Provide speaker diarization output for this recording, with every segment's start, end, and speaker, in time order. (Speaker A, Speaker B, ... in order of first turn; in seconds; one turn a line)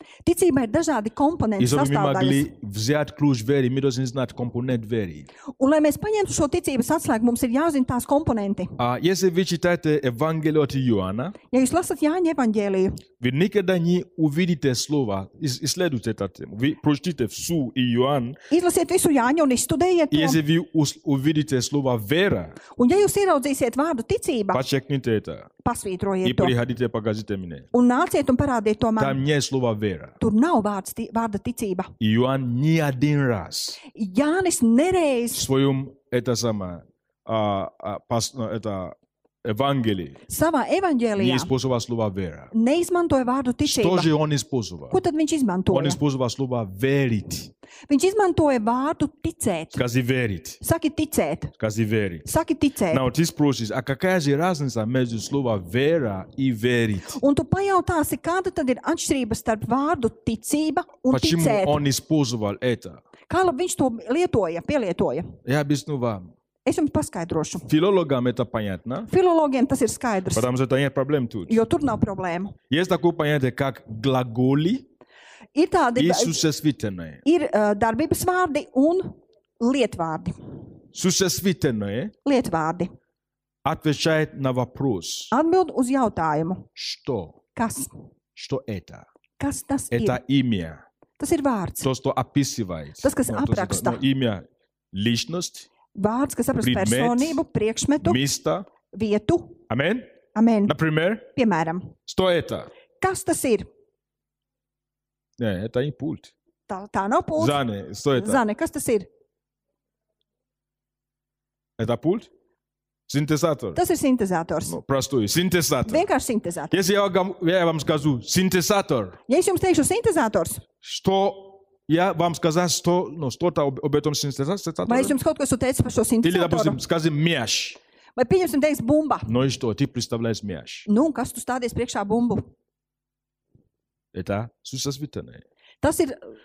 Speaker A: 0.2-2.5
Speaker B: 1.6-5.3
Speaker A: 5.6-8.7
Speaker B: 8.8-11.3
Speaker A: 11.5-13.0
Speaker B: 13.2-18.4
Speaker A: 18.5-20.4
Speaker B: 20.1-22.6
Speaker A: 22.8-24.6
Speaker B: 24.5-25.5
Speaker A: 25.6-26.5
Speaker B: 26.2-27.7
Speaker A: 27.7-29.2
Speaker B: 29.0-30.1
Speaker A: 30.2-31.9
Speaker B: 32.0-33.8
Speaker A: 33.9-35.4
Speaker B: 35.3-40.2
Speaker A: 40.3-41.5
Speaker B: 41.2-42.5
Speaker A: 42.5-44.1
Speaker B: 43.6-45.0
Speaker A: 44.9-46.0
Speaker B: 45.7-47.5
Speaker A: 47.9-49.8
Speaker B: 49.7-50.6
Speaker A: 50.6-51.5
Speaker B: 51.6-52.3
Speaker A: 52.2-53.0
Speaker B: 52.9-57.2
Speaker A: 57.2-61.8
Speaker B: 61.1-63.0
Speaker A: 63.3-65.3
Speaker B: 65.4-66.3
Speaker A: 66.6-67.7
Speaker B: 67.7-69.1
Speaker A: 69.1-70.5
Speaker B: 70.3-71.6
Speaker A: 71.5-72.5
Speaker B: 72.7-74.8
Speaker A: 75.5-76.4
Speaker B: 76.0-77.2
Speaker A: 77.2-80.3
Speaker B: 80.9-82.1
Speaker A: 82.2-82.9
Speaker B: 83.6-85.3
Speaker A: 85.3-86.7
Speaker B: 86.8-87.4
Speaker A: 87.5-87.9
Speaker B: 88.3-89.0
Speaker A: 89.4-90.2
Speaker B: 89.9-90.8
Speaker A: 91.2-91.9
Speaker B: 91.8-95.7
Speaker A: 93.0-94.0
Speaker A: 95.9-98.2
Speaker B: 96.6-97.4
Speaker B: 98.0-98.7
Speaker A: 98.9-99.6
Speaker B: 99.7-100.0
Speaker A: 100.3-100.7
Speaker B: 100.7-101.2
Speaker A: 101.3-101.9
Speaker B: 102.1-102.7
Speaker A: 103.0-103.7
Speaker B: 105.4-106.3
Speaker A: 106.7-107.6
Speaker B: 107.4-108.4
Speaker A: 108.1-109.1
Speaker B: 111.8-112.3
Speaker B: 113.1-113.8
Speaker A: 113.7-114.7
Speaker B: 114.7-116.0
Speaker A: 115.8-116.7
Speaker B: 116.7-119.2
Speaker A: 119.3-120.6
Speaker B: 120.8-125.2
Speaker A: 124.9-126.8
Speaker B: 126.2-127.8
Speaker A: 128.2-129.3
Speaker B: 129.2-130.9
Speaker A: 130.9-132.4
Speaker B: 134.1-135.4
Speaker A: 135.8-136.2